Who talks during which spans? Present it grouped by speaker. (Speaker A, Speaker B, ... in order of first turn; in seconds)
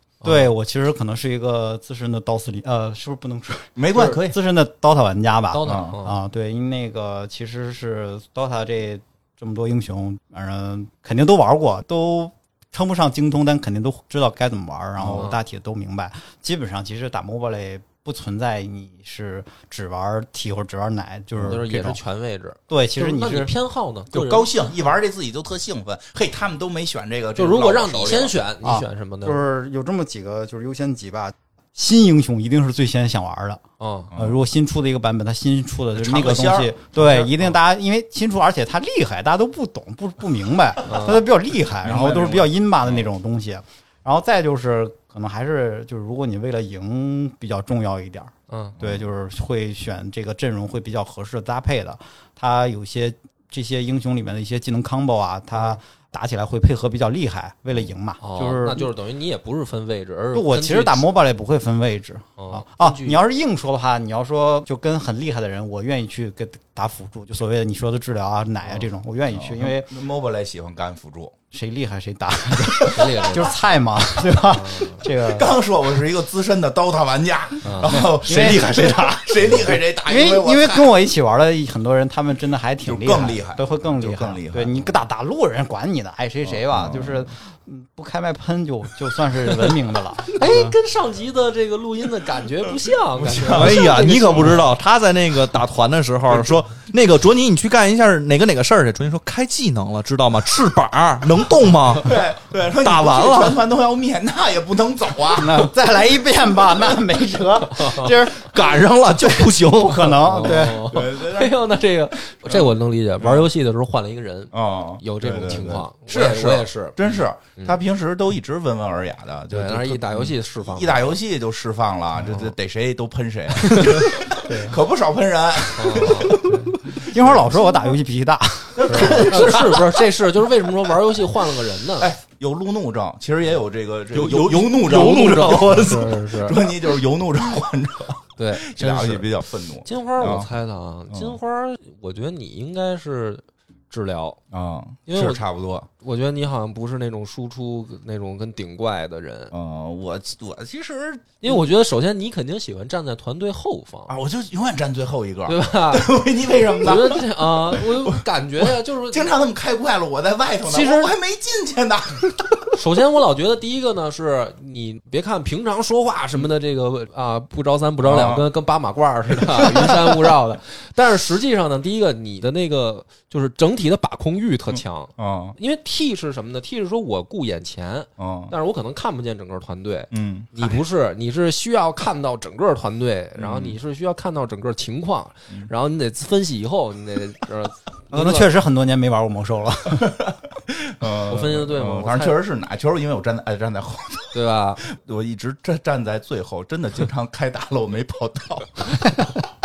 Speaker A: 0.2-0.5, 5.5-6.2, 15.1-15.4, 21.4-24.5, 27.4-29.4, 33.8-34.1, 40.9-41.2, 48.5-48.8, 58.2-61.1, 62.4-63.2, 72.9-73.6, 74.5-75.0, 77.6-78.0, 90.3-94.7, 107.8-108.1, 110.3-117.8, 119.5-121.1, 123.8-124.1, 125.8-126.7, 128.9-132.1, 134.9-136.7, 138.4-139.3, 139.8-144.4, 145.1-145.4, 146.0-149.5, 151.4-154.1, 155.5-156.1, 156.8-159.3, 160.7-161.2, 162.7-188.5, 191.3-192.4, 194.3-194.8
Speaker B: 0.2-22.0, 22.7-23.5, 28.6-33.6, 34.1-58.9, 60.3-69.9, 71.5-75.6, 77.8-90.7, 105.3-108.7, 109.2-111.0, 124.5-124.8, 126.4-129.7, 188.1-190.2
Speaker C: 3.8-4.4, 5.6-6.0, 15.0-15.3, 24.1-28.4, 34.1-34.4, 35.9-37.6, 41.8-43.0, 48.8-49.0, 69.3-71.4, 72.6-73.2, 74.2-80.9, 82.8-84.9, 86.5-87.3, 93.2-94.0, 102.0-105.7, 110.4-111.6, 112.5-113.5, 114.5-127.9, 128.8-130.0, 132.0-140.5, 141.1-141.4, 144.5-145.9, 149.5-151.6, 154.1-158.2, 159.1-162.6, 168.0-168.5, 169.4-170.2, 175.2-175.6, 178.2-178.5, 180.1-180.8, 183.4-183.8, 189.9-199.2
Speaker D: 93.5-102.2, 102.8-103.6, 108.2-110.4, 134.1-136.1